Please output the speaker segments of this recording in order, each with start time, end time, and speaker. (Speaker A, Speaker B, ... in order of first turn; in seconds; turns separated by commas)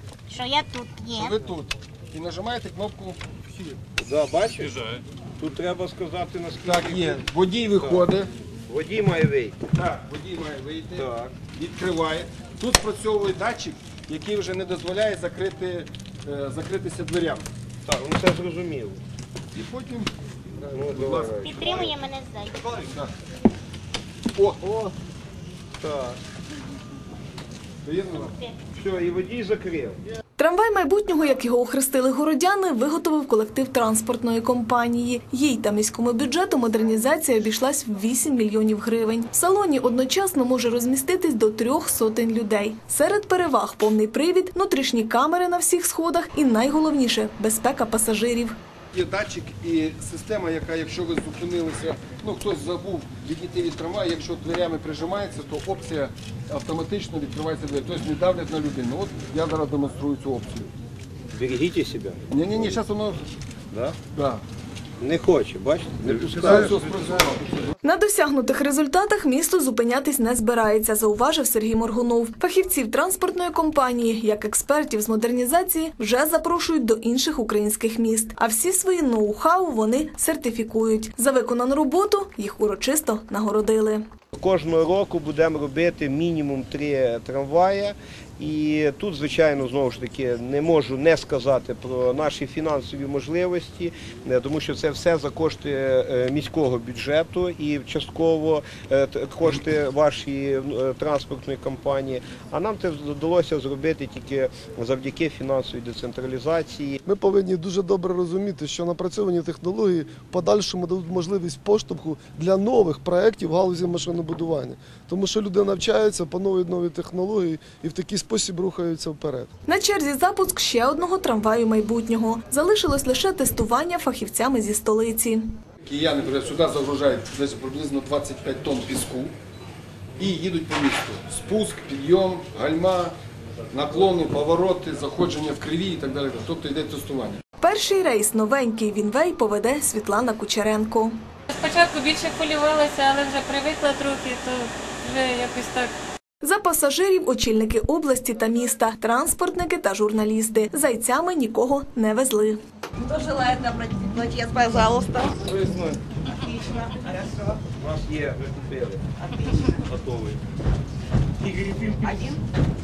Speaker A: 0.3-1.4, Speaker B: 1.1-3.8, Speaker C: 4.0-8.1, Speaker B: 6.6-8.3, Speaker C: 8.7-9.6, Speaker B: 9.8-17.5, Speaker C: 10.9-11.3, Speaker C: 17.9-19.0, Speaker B: 19.5-21.9, Speaker C: 20.7-21.9, Speaker A: 21.4-22.6, Speaker B: 22.6-23.1, Speaker B: 24.4-24.6, Speaker C: 24.6-24.9, Speaker C: 25.8-26.2, Speaker B: 27.8-28.4, Speaker C: 28.7-30.0, Speaker D: 30.4-48.5, Speaker B: 48.9-60.7, Speaker C: 61.3-62.3, Speaker B: 62.3-63.2, Speaker C: 63.7-64.0, Speaker B: 64.1-64.4, Speaker C: 65.0-66.9, Speaker B: 66.1-67.7, Speaker D: 67.8-84.0, Speaker C: 84.3-107.0, Speaker E: 107.1-119.5, Speaker D: 119.7-125.4, Speaker B: 125.8-129.3, Speaker B: 130.2-133.2, Speaker B: 133.7-137.4, Speaker D: 137.6-141.1, Speaker F: 141.5-145.9, Speaker D: 146.4-152.6, Speaker G: 153.0-155.4, Speaker C: 155.4-156.0, Speaker G: 156.3-157.5, Speaker C: 157.8-159.1, Speaker C: 159.6-160.4, Speaker C: 161.4-162.1, Speaker G: 162.1-162.4